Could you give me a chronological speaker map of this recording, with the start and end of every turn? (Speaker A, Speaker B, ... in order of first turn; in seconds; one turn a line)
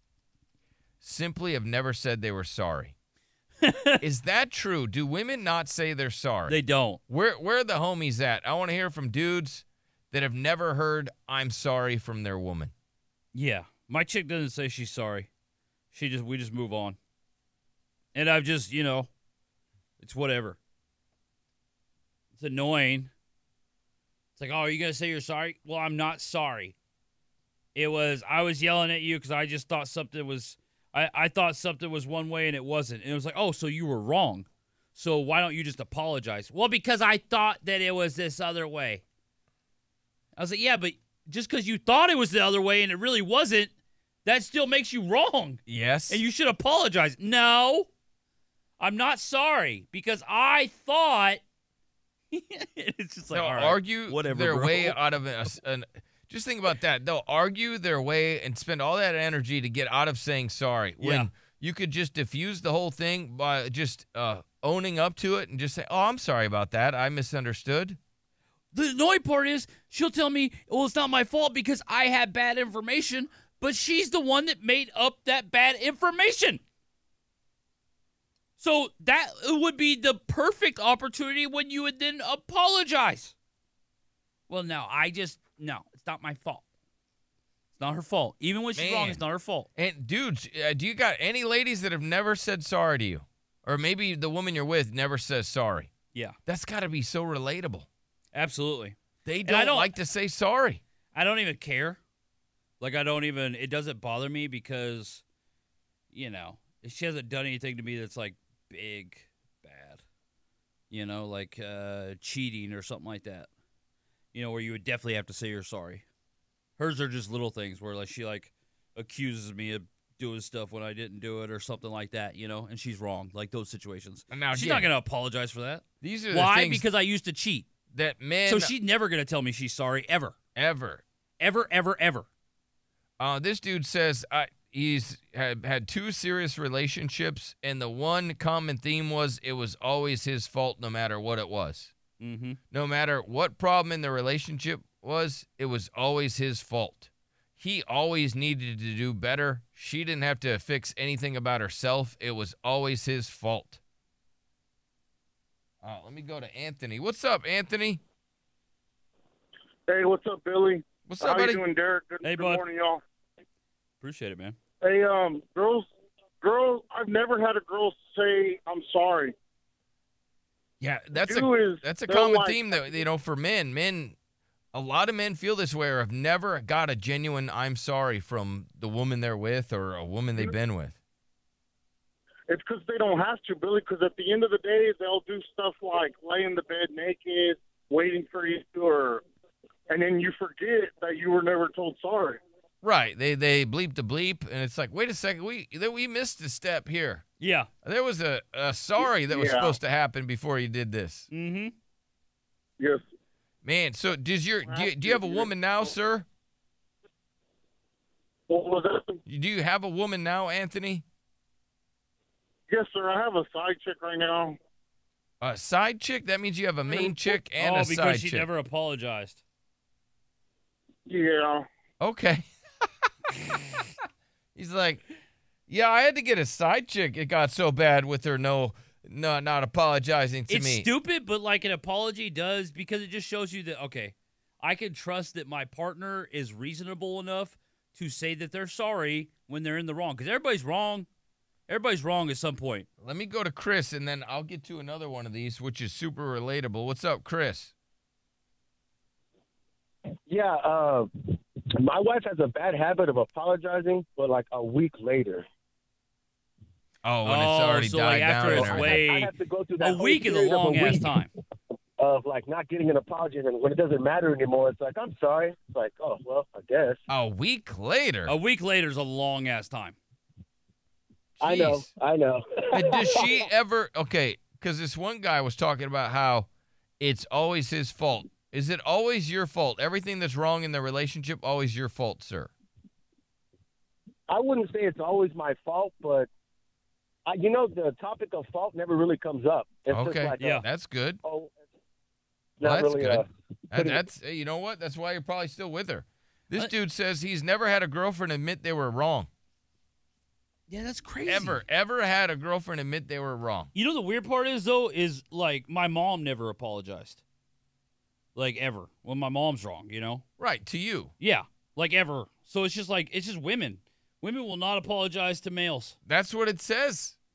Speaker A: 1.0-2.9
Speaker B: 3.6-4.0
Speaker A: 4.0-6.6
Speaker B: 6.5-7.0
Speaker A: 7.1-12.7
Speaker B: 13.3-15.3
Speaker B: 15.9-17.0
Speaker B: 18.1-19.1
Speaker B: 20.0-20.6
Speaker B: 22.3-23.1
Speaker B: 24.4-26.8
Speaker B: 27.7-39.0
Speaker B: 40.4-43.7
Speaker B: 44.2-47.9
Speaker A: 45.7-46.2
Speaker B: 48.8-51.4
Speaker B: 52.3-55.0
Speaker A: 53.3-68.0
Speaker B: 61.0-61.3
Speaker B: 68.7-76.6
Speaker B: 78.6-83.3
Speaker B: 84.5-86.6
Speaker B: 87.7-89.7
Speaker A: 88.8-89.2
Speaker A: 89.8-95.9
Speaker A: 96.5-97.9
Speaker B: 98.3-99.9
Speaker A: 99.2-100.8
Speaker B: 101.1-102.0
Speaker B: 102.8-105.2
Speaker B: 106.1-110.0
Speaker B: 110.9-113.5
Speaker B: 114.3-116.0
Speaker B: 116.8-127.7
Speaker A: 124.3-124.9
Speaker A: 126.0-126.8
Speaker A: 127.9-128.7
Speaker B: 128.4-130.3
Speaker A: 130.6-131.0
Speaker B: 131.4-132.2
Speaker A: 133.2-141.9
Speaker B: 142.2-142.6
Speaker A: 142.7-153.8
Speaker A: 155.8-158.0
Speaker C: 159.9-163.0
Speaker A: 161.1-161.6
Speaker B: 162.2-162.6
Speaker B: 164.0-164.6
Speaker C: 164.8-165.8
Speaker C: 166.4-169.3
Speaker A: 170.8-174.2
Speaker C: 171.2-173.0
Speaker A: 174.7-181.0
Speaker C: 182.5-189.2
Speaker C: 189.9-192.4
Speaker A: 192.8-197.2
Speaker B: 197.4-197.7
Speaker A: 197.8-201.3
Speaker C: 199.3-199.8
Speaker B: 201.3-201.7
Speaker A: 203.6-206.3
Speaker C: 204.7-205.5
Speaker C: 208.5-209.2
Speaker A: 209.3-211.0
Speaker C: 212.7-214.6
Speaker A: 215.4-218.5
Speaker B: 216.9-219.4
Speaker C: 221.1-221.6
Speaker A: 222.0-222.4
Speaker A: 224.6-225.0
Speaker A: 225.7-230.9
Speaker B: 230.5-241.1
Speaker B: 241.7-242.9
Speaker A: 243.0-247.7
Speaker D: 250.3-251.1
Speaker D: 251.8-255.4
Speaker A: 257.0-259.0
Speaker B: 257.2-261.3
Speaker D: 258.4-261.1
Speaker D: 262.0-267.0
Speaker A: 267.1-268.3
Speaker B: 268.3-269.9
Speaker A: 271.4-271.9
Speaker D: 271.4-273.3
Speaker A: 272.7-276.5
Speaker A: 277.0-282.5
Speaker D: 284.3-286.3
Speaker D: 287.2-290.6
Speaker A: 289.9-291.2
Speaker D: 291.2-291.5
Speaker D: 292.6-294.0
Speaker A: 292.6-299.3
Speaker B: 300.7-301.6
Speaker A: 301.2-303.7
Speaker B: 303.7-307.2
Speaker B: 308.3-310.2
Speaker A: 310.4-311.1
Speaker B: 311.2-315.9
Speaker A: 316.1-317.2